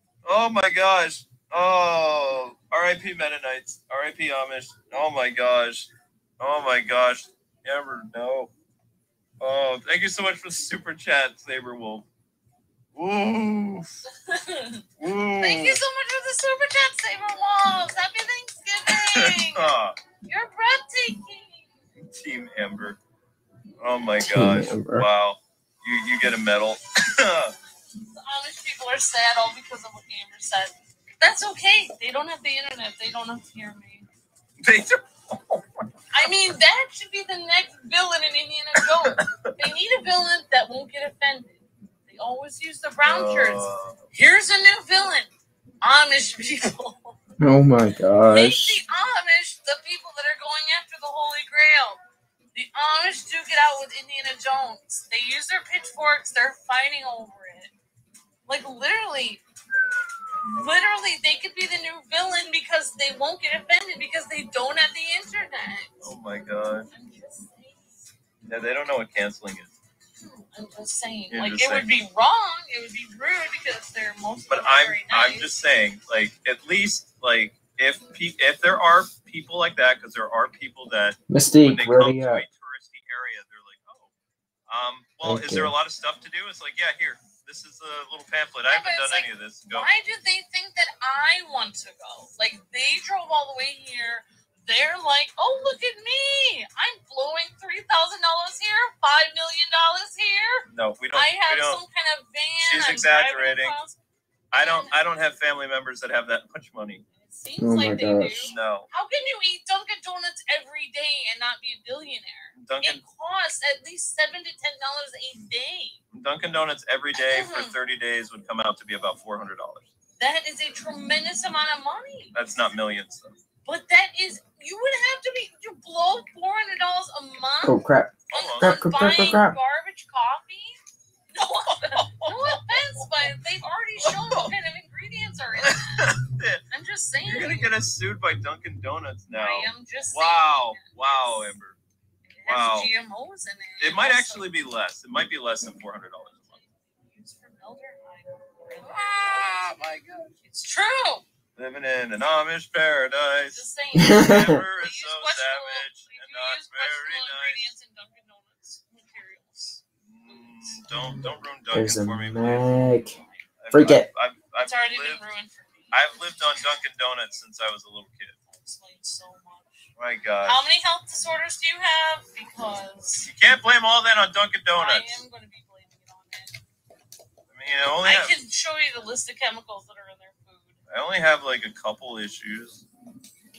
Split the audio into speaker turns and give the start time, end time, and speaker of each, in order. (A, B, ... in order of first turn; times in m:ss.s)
0:00.2-0:08.5 A
0:09.4-0:12.0 A
0:12.9-0:14.0 A
0:14.0-0:14.9 B
0:15.0-0:15.8 A
0:15.4-0:19.7 B
0:19.0-0:20.0 A
0:20.2-0:21.7 B
0:22.0-0:23.0 A
0:23.8-0:27.5 A
0:24.2-0:25.1 C
0:28.0-0:34.1 B
0:34.6-0:35.6 A
0:36.1-0:45.3 B
0:38.8-0:39.5 A
0:43.0-0:44.0 A
0:45.8-0:47.2 B
0:47.4-0:48.8 C
0:48.3-0:52.0 B
0:52.5-0:57.7 B
0:58.4-0:59.4 B
1:00.4-1:06.1 B
1:06.0-1:06.9 A
1:06.9-1:08.1 B
1:08.5-1:09.7 A
1:10.2-1:15.6 B
1:11.3-1:11.9 A
1:14.5-1:24.1 A
1:21.3-1:22.4 C
1:24.7-1:29.9 A
1:25.2-1:25.7 C
1:28.6-1:44.0 B
1:40.7-1:41.8 A
1:42.6-1:43.8 A
1:44.5-1:47.0 A
1:44.5-1:44.9 B
1:47.1-1:56.0 B
1:47.6-1:48.5 C
1:48.5-1:48.9 A
1:52.6-1:53.0 A
1:56.1-1:59.9 A
1:57.1-1:57.8 B
2:00.2-2:02.3 B
2:02.3-2:03.4 A
2:03.6-2:07.8 B
2:07.6-2:09.6 C
2:08.3-2:08.8 A
2:08.3-2:10.8 B
2:11.3-2:16.2 B
2:11.7-2:12.6 A
2:14.0-2:14.5 A
2:15.6-2:16.6 A
2:16.7-2:17.7 B
2:17.2-2:21.8 A
2:19.3-2:21.5 B
2:22.2-2:24.5 B
2:22.4-2:22.9 A
2:23.8-2:26.6 A
2:26.4-2:29.5 B
2:28.8-2:30.3 A
2:30.4-2:31.2 B
2:31.6-2:37.7 A
2:33.4-2:40.8 B
2:33.9-2:34.6 C
2:40.0-2:42.7 A
2:41.0-2:43.2 C
2:43.2-2:43.4 B
2:43.6-2:45.2 A
2:43.7-2:44.1 C
2:44.6-2:46.2 B
2:45.9-2:48.4 A
2:48.5-2:49.9 B
2:50.0-2:50.6 A
2:50.4-2:53.3 B
2:53.2-2:55.2 A
2:54.7-2:56.6 B
2:57.5-2:58.3 A
2:58.0-3:00.8 B
3:00.9-3:02.8 A